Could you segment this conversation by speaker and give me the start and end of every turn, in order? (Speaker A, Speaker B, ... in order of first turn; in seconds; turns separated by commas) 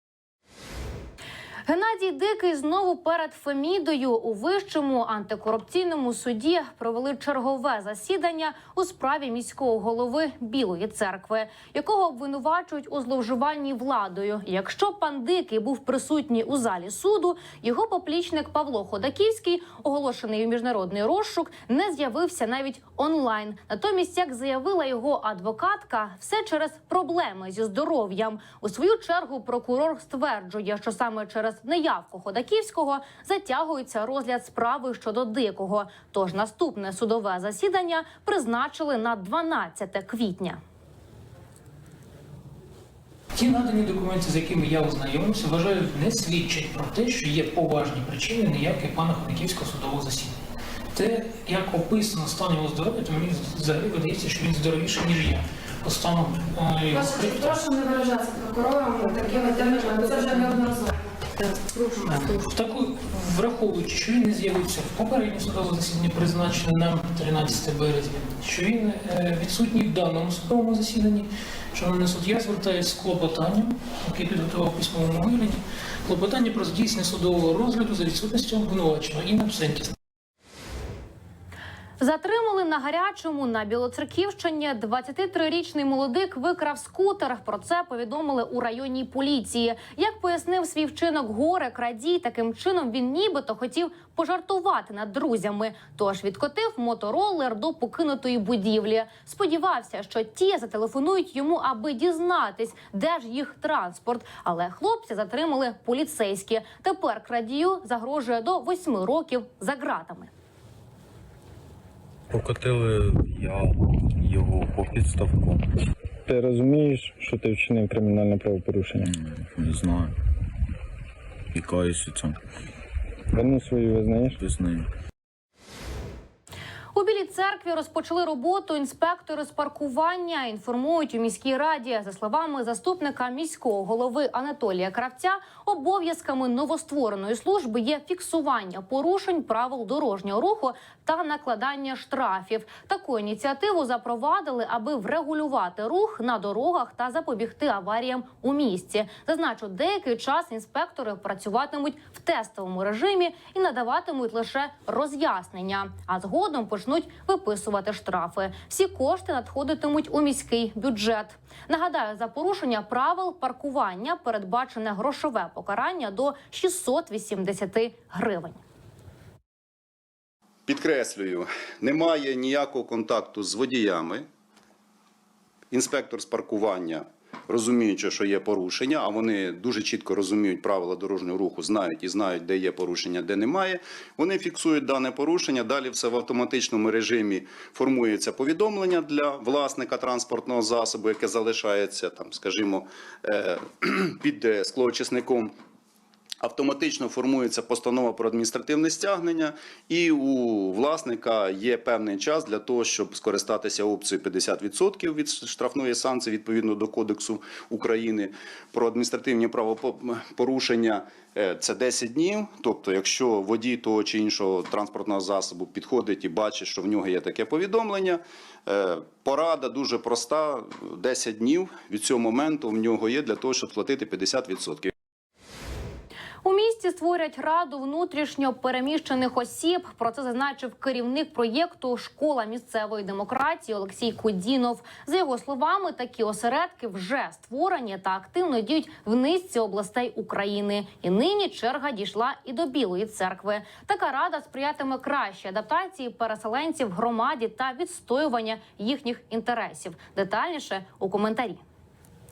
Speaker A: 1.7-40.6, Speaker B: 43.3-50.4, Speaker B: 50.9-57.7, Speaker C: 56.9-61.0, Speaker C: 61.7-62.3, Speaker B: 62.0-80.0, Speaker A: 82.0-110.3, Speaker D: 112.3-115.7, Speaker E: 116.3-119.1, Speaker D: 119.1-120.1, Speaker D: 121.5-122.4, Speaker E: 123.3-124.4, Speaker D: 124.4-124.9, Speaker A: 126.9-168.6, Speaker F: 170.7-174.3, Speaker F: 175.7-195.5, Speaker F: 196.4-224.9, Speaker A: 226.4-251.6